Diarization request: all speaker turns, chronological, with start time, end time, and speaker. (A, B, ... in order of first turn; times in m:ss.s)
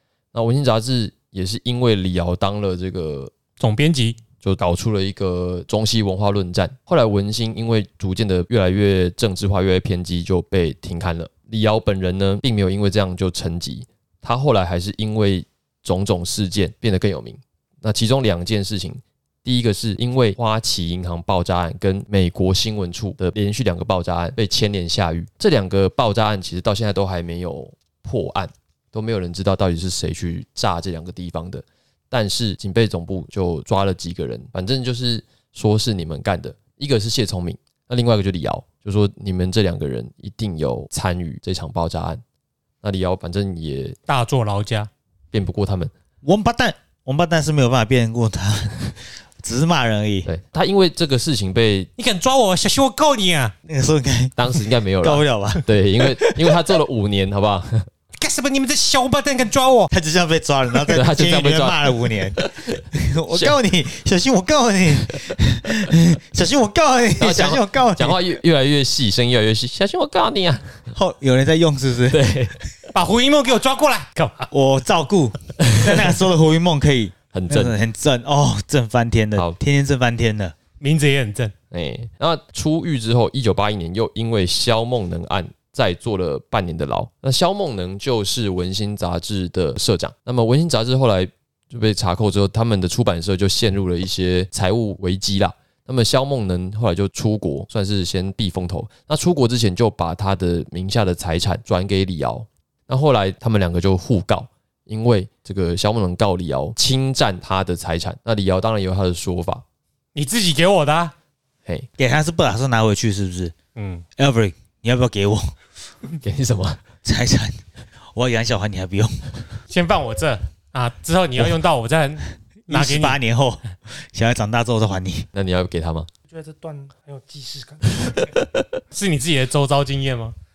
0:00.3-0:03.3 A
0:03.6-0:04.2 B
0:04.4-0:42.2 A
0:42.8-0:44.0 A
0:44.1-0:44.9 B
0:45.3-0:45.9 A
0:46.2-0:50.3 C
0:50.3-0:51.9 A
0:52.0-0:53.6 B
0:53.6-0:56.8 C
0:54.4-0:57.9 A
0:58.2-0:59.9 B
0:59.9-1:08.2 C
1:00.9-1:03.6 A
1:07.2-1:10.8 A
1:10.9-1:12.2 C
1:12.1-1:12.6 A
1:12.9-1:14.5 B
1:14.5-1:20.6 C
1:17.3-1:17.8 A
1:20.8-1:21.5 B
1:21.7-1:49.6 A
1:50.2-1:51.2 B
1:52.0-1:53.5 C
1:53.8-1:54.0 B
1:54.2-1:55.6 C
1:56.2-1:56.8 A
1:57.0-1:57.6 C
1:58.1-1:59.5 C
1:59.7-2:03.2 B
2:02.7-2:05.3 C
2:05.3-2:06.1 A
2:06.3-2:08.3 D
2:08.1-2:08.7 A
2:08.9-2:10.4 B